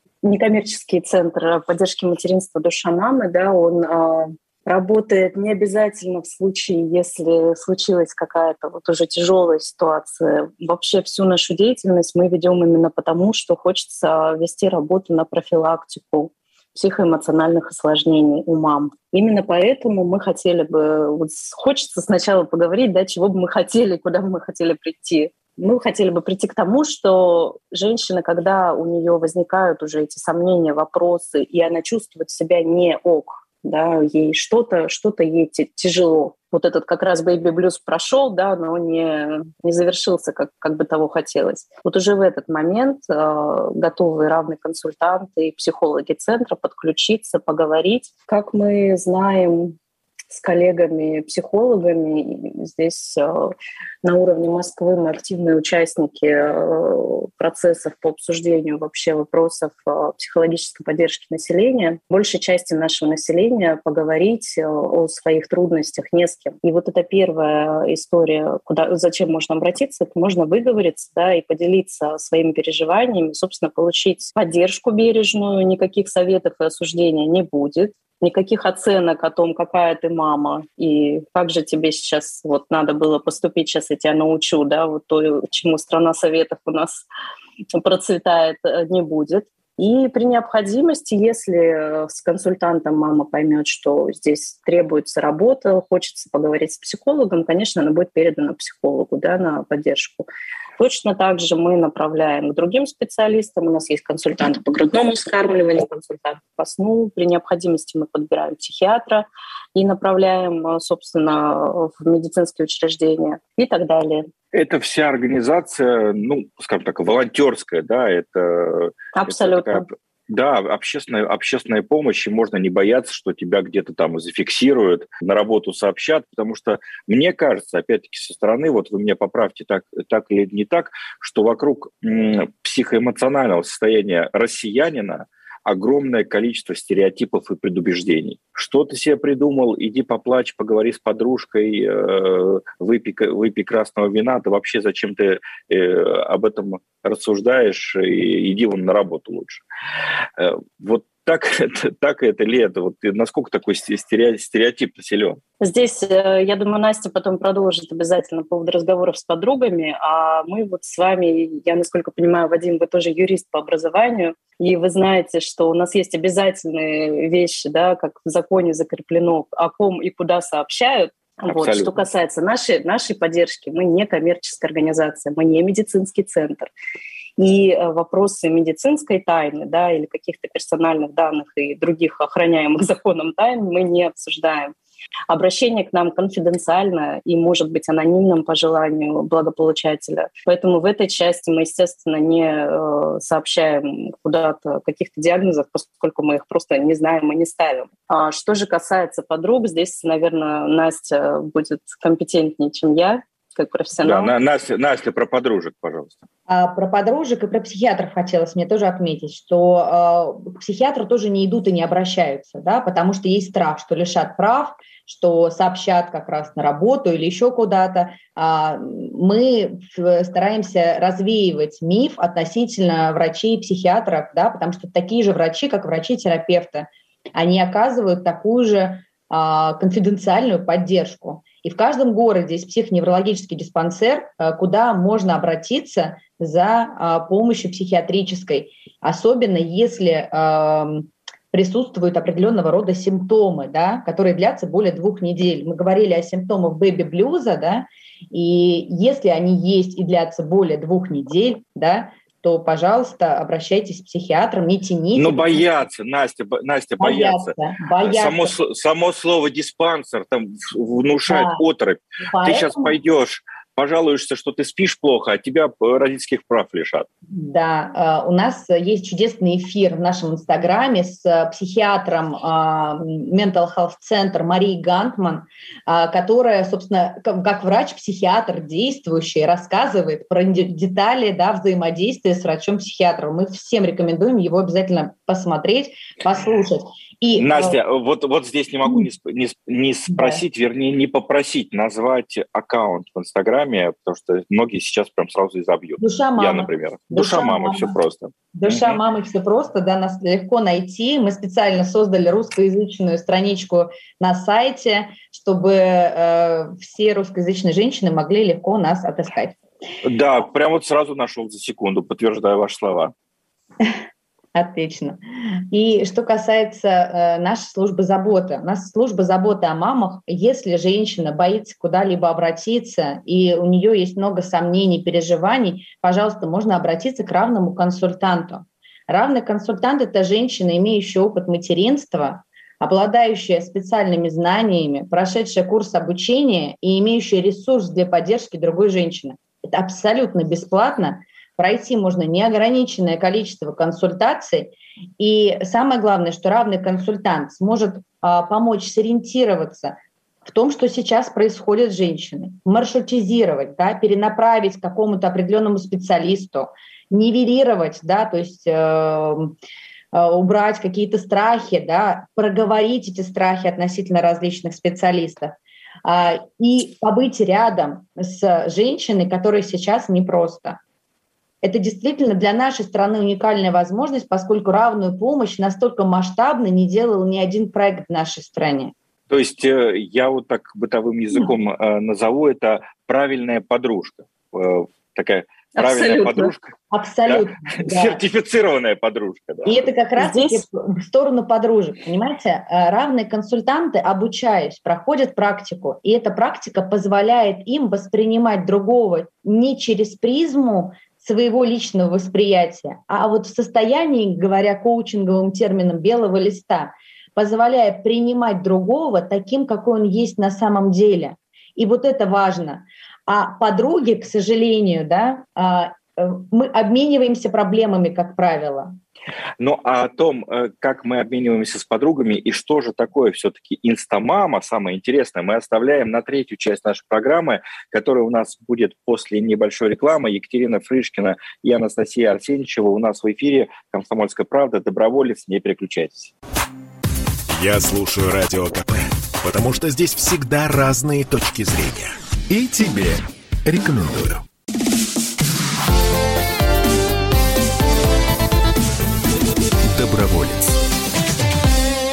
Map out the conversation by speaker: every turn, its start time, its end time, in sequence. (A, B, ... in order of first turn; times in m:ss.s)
0:00.2-0:49.8 A
0:50.3-1:27.1 A
1:27.7-1:40.3 A
1:40.8-1:54.3 A
1:54.5-2:29.6 B
1:59.1-1:59.9 A
2:30.4-2:35.4 B
2:35.6-2:56.7 A
2:51.5-2:51.9 B
2:57.4-3:04.7 A
3:05.3-3:24.3 A
3:24.0-3:26.3 B
3:26.5-4:15.6 C
4:15.2-4:27.1 B
4:17.0-4:18.5 C
4:21.3-4:21.6 C
4:22.3-4:23.0 C
4:27.3-4:47.8 C
4:47.4-4:59.0 B
4:50.1-4:50.4 C
4:56.0-4:58.0 C
4:58.5-5:09.6 C
5:10.0-5:13.1 B
5:14.6-5:15.2 C
5:15.7-5:59.5 C
6:00.1-6:10.8 C
6:11.6-6:18.9 C
6:19.3-6:26.7 B
6:25.8-6:26.5 A
6:26.9-6:28.2 C
6:27.2-6:29.9 B
6:29.6-6:58.9 C
6:30.2-6:30.6 A
6:59.6-7:16.3 B
7:17.5-7:24.4 D
7:29.9-7:30.8 D